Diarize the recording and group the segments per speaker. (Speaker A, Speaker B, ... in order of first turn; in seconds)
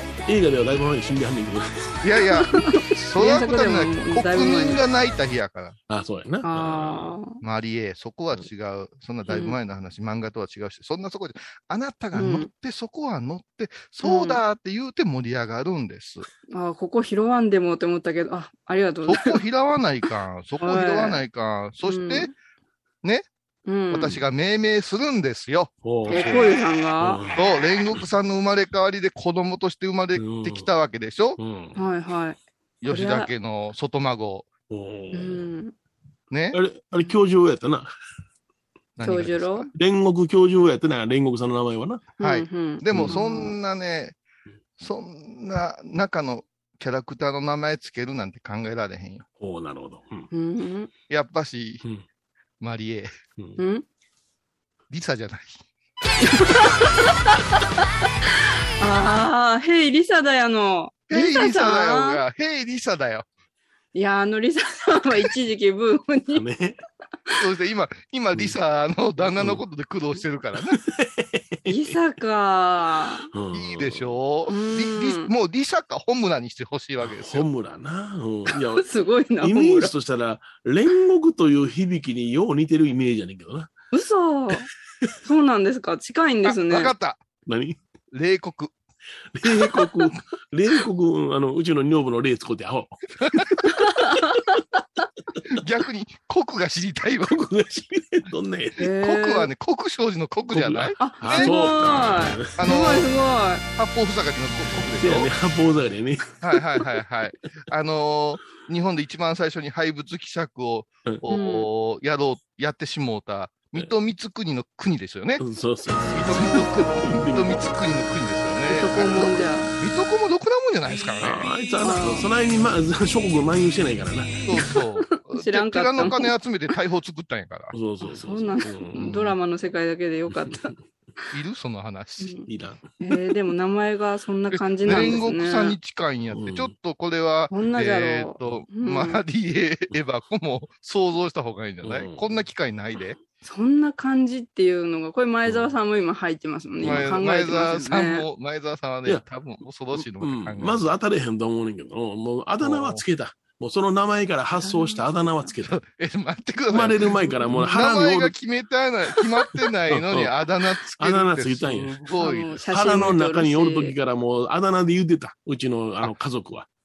Speaker A: 0.2-2.0, 5.9-7.2, 25.8-28.0, 30.2-30.7, 31.4-31.8, 34.7-35.5, 36.5-37.9, 39.7-42.1, 42.9-43.2, 49.4-50.3, 66.3-66.8, 70.7-71.9, 73.3-74.2, 77.0-78.8, 79.4-83.7, 87.5-87.8, 89.3-93.4, 97.2-98.8, 100.5-102.7, 105.0-106.8, 115.4-117.8, 121.2-124.5, 127.7-129.4, 130.3-130.6, 132.5-132.9, 134.8-135.3, 136.3-136.7, 141.8-142.4, 145.4-145.7, 146.8-147.2, 149.9-155.8, 156.7-158.3, 159.9-162.0, 162.7-166.7
Speaker B: 2.0-5.8, 7.4-16.3, 19.1-22.3, 23.9-26.6, 27.3-31.4, 32.8-34.5, 36.3-36.6, 39.0-39.7, 42.2-44.1, 44.8-49.2, 51.1-51.8, 52.6-53.1, 54.9-55.6, 61.1-63.2, 67.4-70.8, 73.5-77.5, 86.5-87.2, 88.1-88.7, 89.6-90.2, 93.2-93.6, 95.5-97.4, 99.0-101.8, 102.6-103.1, 103.8-105.3, 106.4-115.4, 116.1-121.5, 124.5-127.7, 131.3-132.4, 134.5-143.2, 146.8-150.9, 152.6-153.0, 155.6-163.1
Speaker C: 2.4-4.8, 6.4-7.4, 9.3-9.6, 12.1-12.5, 14.0-14.4, 16.5-19.4, 20.6-21.2, 21.8-22.3, 23.6-24.2, 26.1-27.2, 31.7-33.3, 35.1-35.7, 39.0-39.7, 42.2-43.5, 50.3-50.9, 53.6-53.8, 56.2-56.8, 58.8-62.2, 63.9-66.4, 71.7-73.2, 74.5-75.3, 78.7-79.9, 83.9-84.7, 85.2-86.9, 93.7-94.6, 98.8-99.5, 101.0-103.6, 111.3-111.7, 118.7-119.7, 121.8-122.3, 124.7-126.3, 128.0-130.7, 132.2-132.5, 133.0-135.8, 137.5-139.2, 143.4-148.2, 154.6-155.3, 157.1-157.7, 162.2-163.9